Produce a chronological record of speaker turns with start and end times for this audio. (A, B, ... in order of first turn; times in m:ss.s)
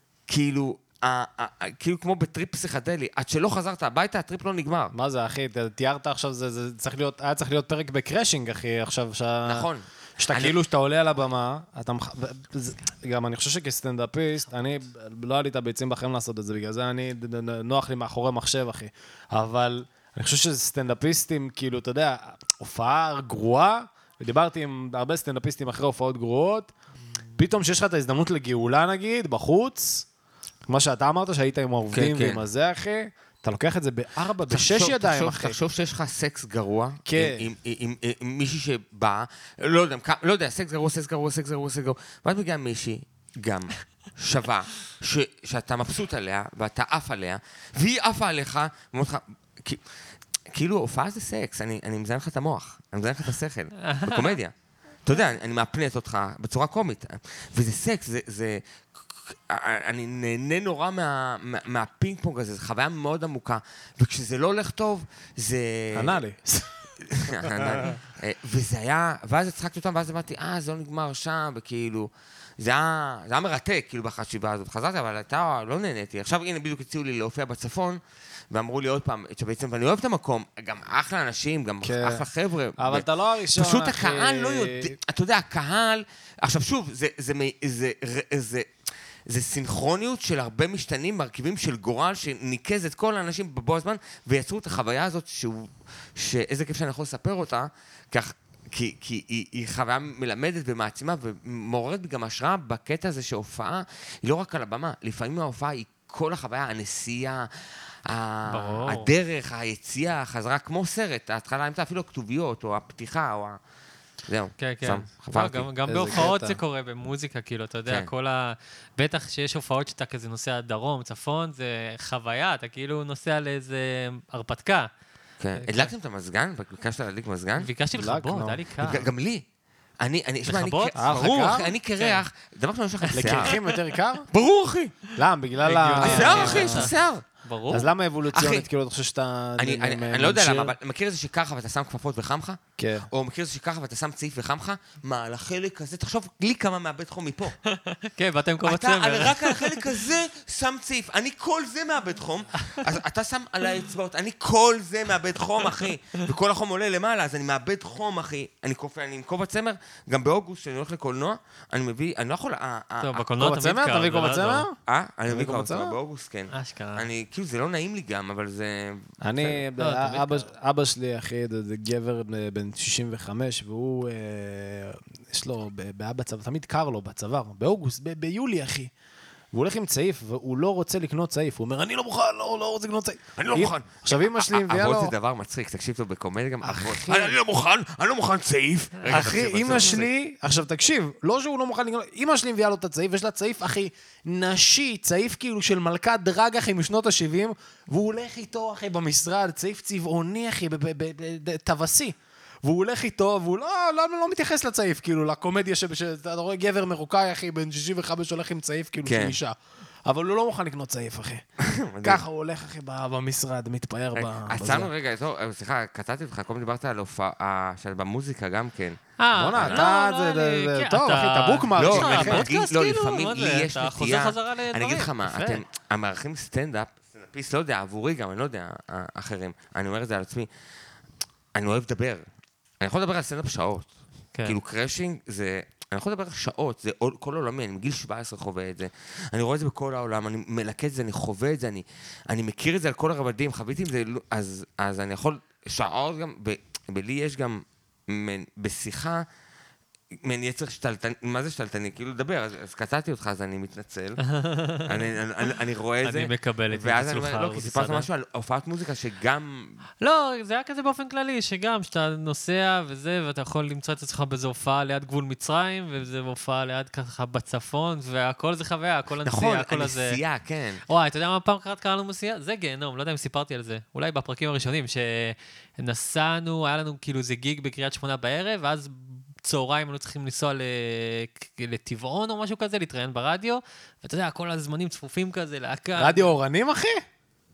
0:00.3-0:04.9 A
0:04.9-0:09.7 B
0:09.4-0:10.6 A
0:10.2-0:26.7 B
0:27.4-0:30.1 B
0:30.7-0:35.6 B
0:31.9-0:32.4 A
0:34.5-0:49.8 A
0:37.1-0:37.5 B
0:50.5-0:54.5 A
0:53.8-0:54.4 C
0:55.0-0:58.6 A
0:59.3-1:06.2 A
1:05.9-1:06.8 B
1:07.1-1:18.0 A
1:07.4-1:07.9 B
1:18.5-1:28.7 A
1:21.8-1:22.3 B
1:22.8-1:24.9 B
1:29.3-1:53.6 A
1:48.5-1:49.1 C
1:54.3-1:55.7 A
1:54.6-2:04.9 C
1:55.9-1:56.6 B
2:05.4-2:07.7 A
2:05.6-2:05.9 C
2:07.6-2:09.1 C
2:07.9-2:08.6 B
2:08.8-2:09.4 A
2:10.0-2:13.6 A
2:10.5-2:11.1 C
2:11.0-2:11.7 B
2:13.1-2:13.5 C
2:13.1-2:14.3 B
2:14.3-2:14.9 A
2:15.2-2:16.9 B
2:15.6-2:16.9 C
2:16.0-2:17.2 A
2:17.4-2:17.9 C
2:17.7-2:20.7 B
2:18.3-2:18.7 A
2:19.6-2:27.6 A
2:22.8-2:23.1 B
2:27.7-2:29.8 C
2:28.6-2:43.3 A
2:43.0-2:44.7 C
2:43.4-2:44.8 B
2:44.9-2:49.6 A
2:45.3-2:46.0 B
2:46.5-2:47.1 C
2:49.2-2:58.9 B
2:49.8-2:50.5 C
2:59.5-3:05.2 B
3:03.4-3:10.1 A
3:06.6-3:07.4 B
3:09.0-3:09.3 C
3:09.1-3:31.4 B
3:29.0-3:29.4 A
3:31.6-3:32.2 A
3:32.0-3:34.9 B
3:34.2-3:39.0 A
3:39.2-3:45.6 C
3:39.4-3:42.4 B
3:39.6-3:39.8 A
3:41.8-3:50.5 A
3:51.6-3:52.2 A
3:52.8-3:53.9 A
3:54.4-4:09.2 A
4:10.2-4:14.2 A
4:14.3-4:15.0 C
4:14.9-4:19.8 A
4:16.0-4:18.1 C
4:20.0-4:30.2 C
4:29.2-4:30.8 A
4:30.9-4:46.3 C
4:46.0-4:47.0 B